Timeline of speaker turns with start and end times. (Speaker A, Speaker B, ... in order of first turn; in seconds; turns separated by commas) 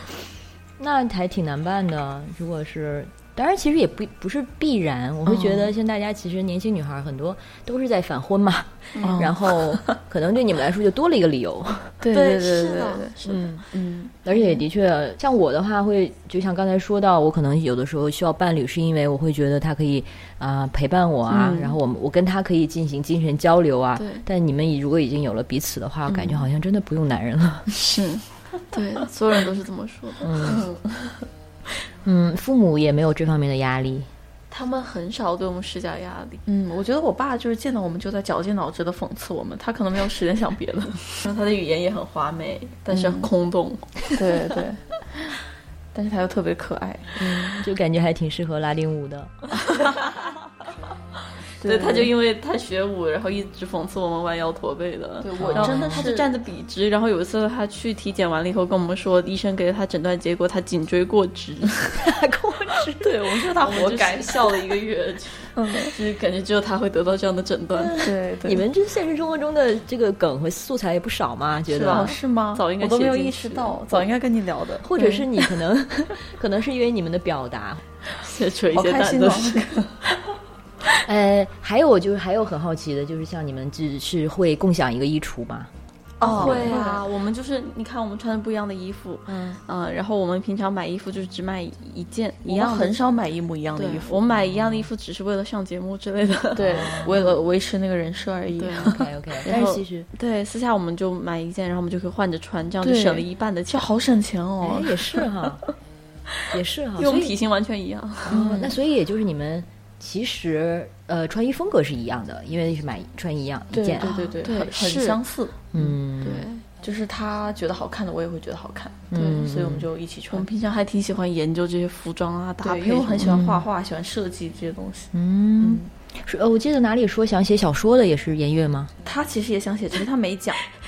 Speaker A: 0.8-12.0, Speaker B: 5.2-5.7, Speaker C: 8.9-9.3, Speaker B: 9.0-9.8, Speaker B: 12.0-13.1, Speaker C: 12.1-13.4, Speaker A: 13.2-13.6, Speaker B: 13.7-14.1, Speaker A: 14.2-27.7, Speaker C: 21.3-21.7, Speaker C: 24.0-24.2, Speaker B: 26.1-26.4, Speaker C: 27.9-28.1, Speaker C: 28.7-30.8, Speaker A: 30.2-30.6, Speaker A: 32.0-34.1, Speaker C: 34.5-36.4, Speaker B: 36.5-41.0, Speaker C: 41.1-44.1, Speaker B: 42.9-43.3, Speaker B: 44.1-45.3, Speaker B: 45.9-47.3, Speaker A: 47.2-49.3, Speaker B: 51.6-52.1, Speaker C: 51.6-62.0, Speaker B: 55.2-56.3, Speaker A: 55.4-56.0, Speaker A: 62.0-63.1, Speaker B: 63.0-64.6, Speaker C: 63.4-68.1, Speaker B: 65.5-65.9, Speaker A: 67.8-72.1, Speaker B: 68.0-68.6, Speaker C: 71.7-74.1, Speaker B: 71.8-75.2, Speaker A: 74.8-77.8, Speaker C: 78.2-79.7, Speaker B: 78.7-80.1, Speaker A: 81.0-85.7, Speaker B: 86.2-87.0, Speaker C: 86.2-93.0, Speaker A: 86.2-86.8, Speaker A: 89.3-89.6, Speaker B: 92.4-94.2, Speaker C: 93.7-97.4, Speaker B: 96.5-99.6, Speaker A: 96.6-97.2, Speaker C: 98.6-103.9, Speaker A: 98.8-100.1, Speaker B: 102.8-105.3, Speaker A: 104.6-105.6, Speaker A: 106.5-107.3, Speaker C: 107.0-108.4, Speaker A: 108.2-114.1, Speaker B: 108.3-108.8, Speaker B: 113.7-115.9, Speaker C: 114.0-115.2, Speaker A: 115.7-116.5, Speaker C: 116.2-116.6, Speaker B: 116.8-120.5, Speaker A: 119.1-119.9, Speaker C: 120.3-123.4, Speaker B: 122.6-125.9, Speaker A: 123.2-123.6, Speaker A: 125.1-128.9, Speaker B: 129.0-130.6